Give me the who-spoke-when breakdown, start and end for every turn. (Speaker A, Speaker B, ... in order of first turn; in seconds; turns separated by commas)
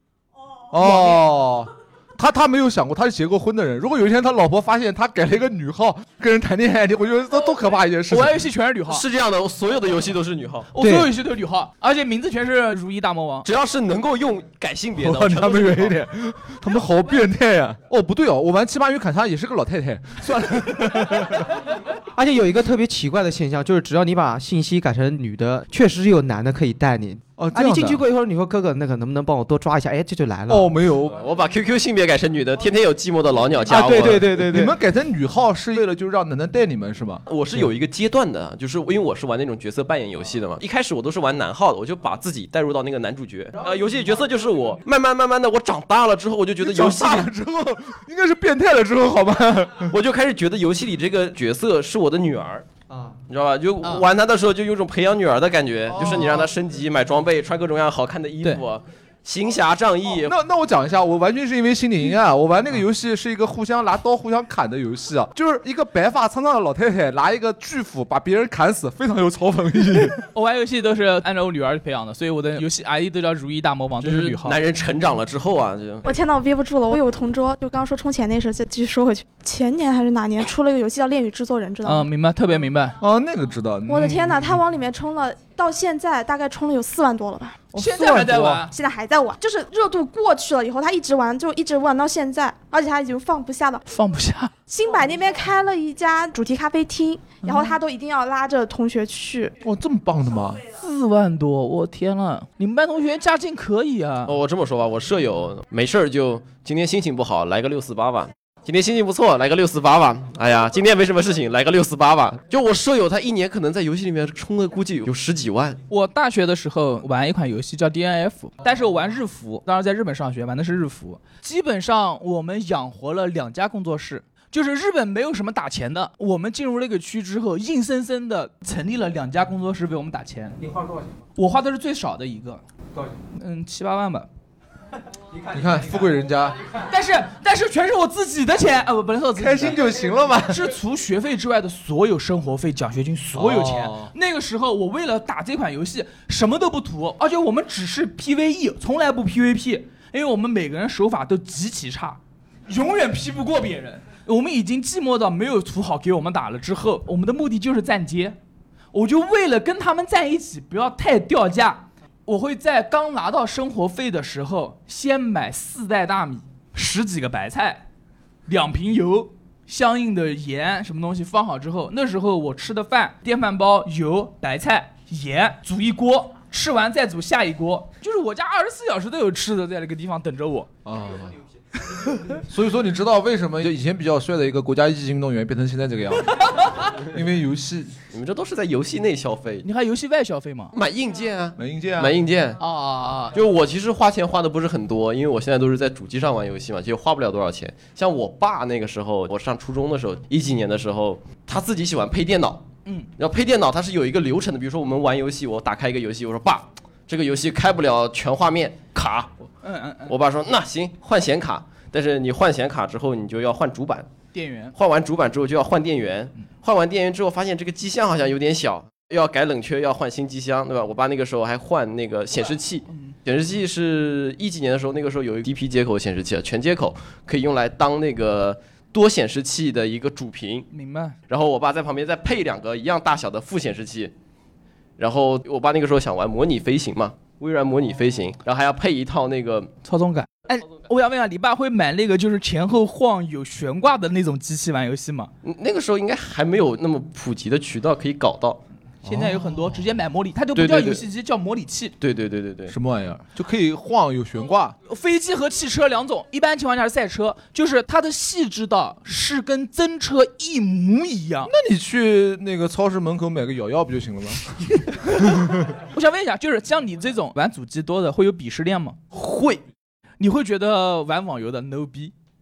Speaker A: 0.7-8.4, Speaker B: 8.1-9.0, Speaker C: 8.9-10.7, Speaker B: 10.7-13.4, Speaker D: 10.8-11.1, Speaker C: 13.4-16.0, Speaker A: 15.0-21.5, Speaker D: 22.1-30.7, Speaker A: 27.4-28.0, Speaker A: 30.5-31.2, Speaker C: 31.2-34.2, Speaker D: 33.7-34.7, Speaker A: 34.0-37.2, Speaker C: 37.3-47.3, Speaker A: 46.6-49.9, Speaker C: 49.9-52.6, Speaker D: 52.9-53.1, Speaker C: 53.3-60.3, Speaker A: 55.9-56.5, Speaker A: 60.2-70.2, Speaker B: 70.3-74.6, Speaker C: 74.0-76.0, Speaker E: 76.0-82.1, Speaker B: 81.8-83.0, Speaker A: 83.0-84.6, Speaker E: 83.9-87.7, Speaker B: 87.7-88.7, Speaker A: 87.8-88.6, Speaker E: 88.7-93.8, Speaker B: 93.8-94.5, Speaker E: 94.7-99.5, Speaker B: 97.4-97.7, Speaker A: 99.6-100.6, Speaker B: 100.7-104.3, Speaker C: 104.2-115.8, Speaker B: 115.9-130.7, Speaker B: 131.3-132.6, Speaker B: 133.3-134.3, Speaker A: 135.5-136.6, Speaker B: 136.8-139.8, Speaker A: 139.4-140.7, Speaker B: 140.5-158.4, Speaker A: 143.3-144.1, Speaker B: 158.9-167.8, Speaker B: 168.5-180.7, Speaker A: 180.8-181.4, Speaker B: 181.9-182.3, Speaker A: 182.5-186.5, Speaker A: 187.1-187.9, Speaker C: 188.1-189.7, Speaker B: 189.6-190.7, Speaker C: 190.7-192.6, Speaker A: 191.6-192.1, Speaker B: 192.6-193.4, Speaker C: 193.3-202.6, Speaker C: 203.2-209.3, Speaker B: 209.6-210.1, Speaker C: 210.1-214.1, Speaker B: 214.3-214.7, Speaker C: 214.8-230.7, Speaker B: 222.9-223.2, Speaker B: 230.7-231.2, Speaker C: 231.3-234.1, Speaker C: 235.0-239.7, Speaker B: 239.8-245.3, Speaker C: 245.4-248.6, Speaker A: 249.0-249.8, Speaker B: 249.0-251.9, Speaker C: 250.5-251.0, Speaker C: 252.0-252.7, Speaker A: 252.7-254.8, Speaker B: 254.9-261.5, Speaker A: 261.5-265.7, Speaker B: 264.9-265.4, Speaker B: 265.9-269.6, Speaker B: 270.2-272.1